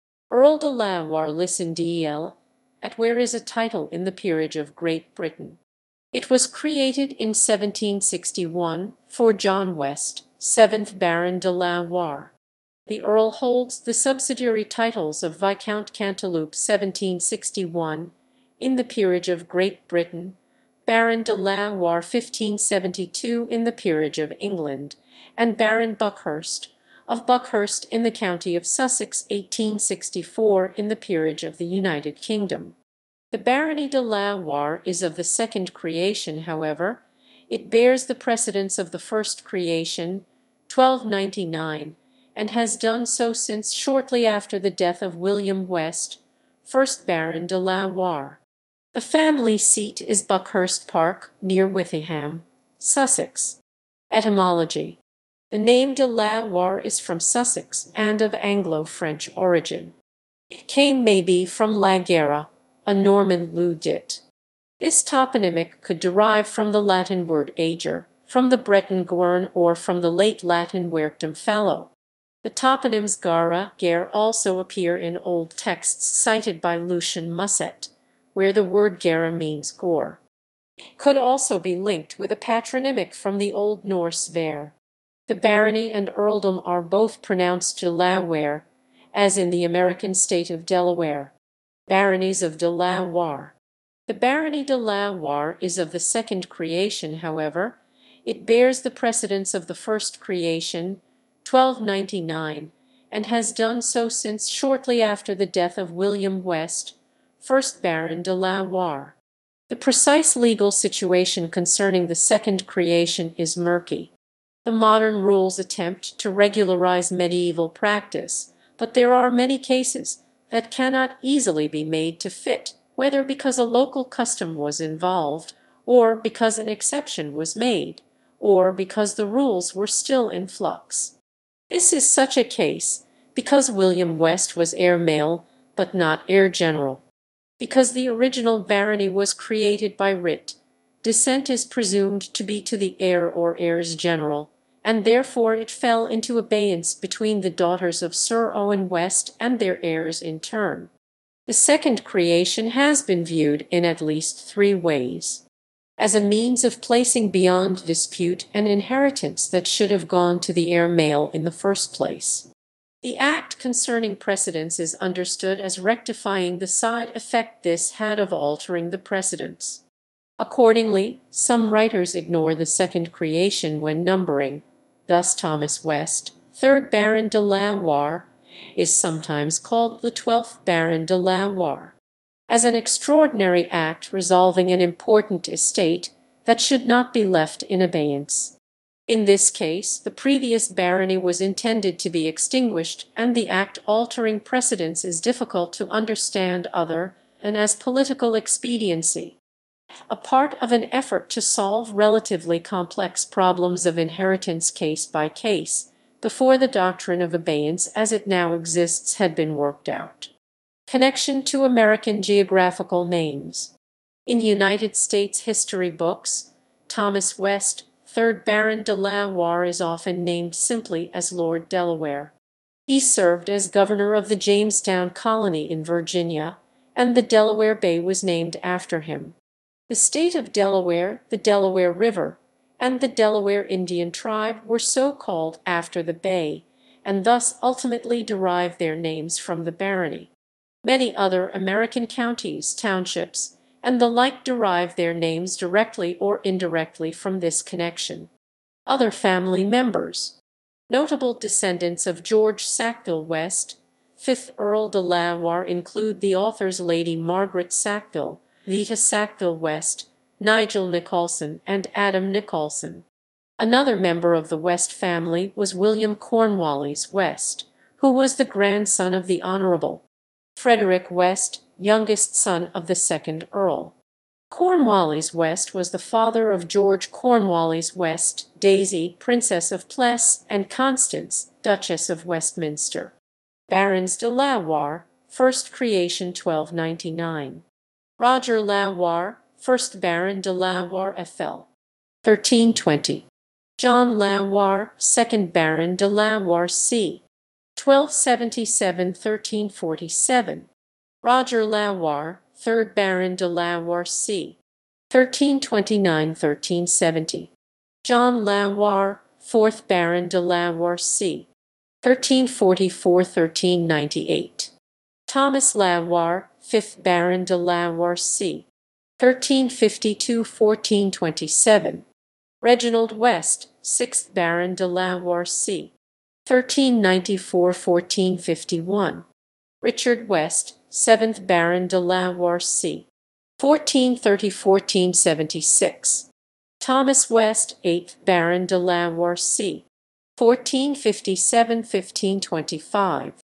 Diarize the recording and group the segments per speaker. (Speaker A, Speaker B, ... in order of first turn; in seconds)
Speaker A: 0.3-5.6, 6.1-12.3, 12.9-32.8, 33.3-48.4, 48.9-53.6, 54.1-55.0, 55.5-59.9, 60.5-64.2, 64.8-80.2, 81.0-84.7, 85.3-91.3, 91.9-93.5, 94.1-109.2, 109.7-114.1, 114.6-131.2, 131.7-137.0, 137.6-150.9, 151.5-155.4, 156.0-162.5, 163.0-169.8, 170.4-181.9, 182.5-188.6, 189.1-199.4, 200.1-210.3, 210.9-213.7, 214.2-222.3, 222.9-229.3, 229.9-240.3, 240.8-248.3, 248.8-250.4, 250.9-263.0, 263.6-270.0, 270.6-273.9, 274.5-283.1, 283.7-287.6, 288.2-291.7, 292.2-293.2, 293.8-297.2, 297.8-300.7, 301.2-304.6, 305.1-307.5, 308.0-311.5, 312.0-314.7, 315.3-318.7, 319.2-322.1, 322.6-325.9, 326.4-329.2, 329.8-333.1, 333.6-336.3, 336.8-339.8, 340.4-343.4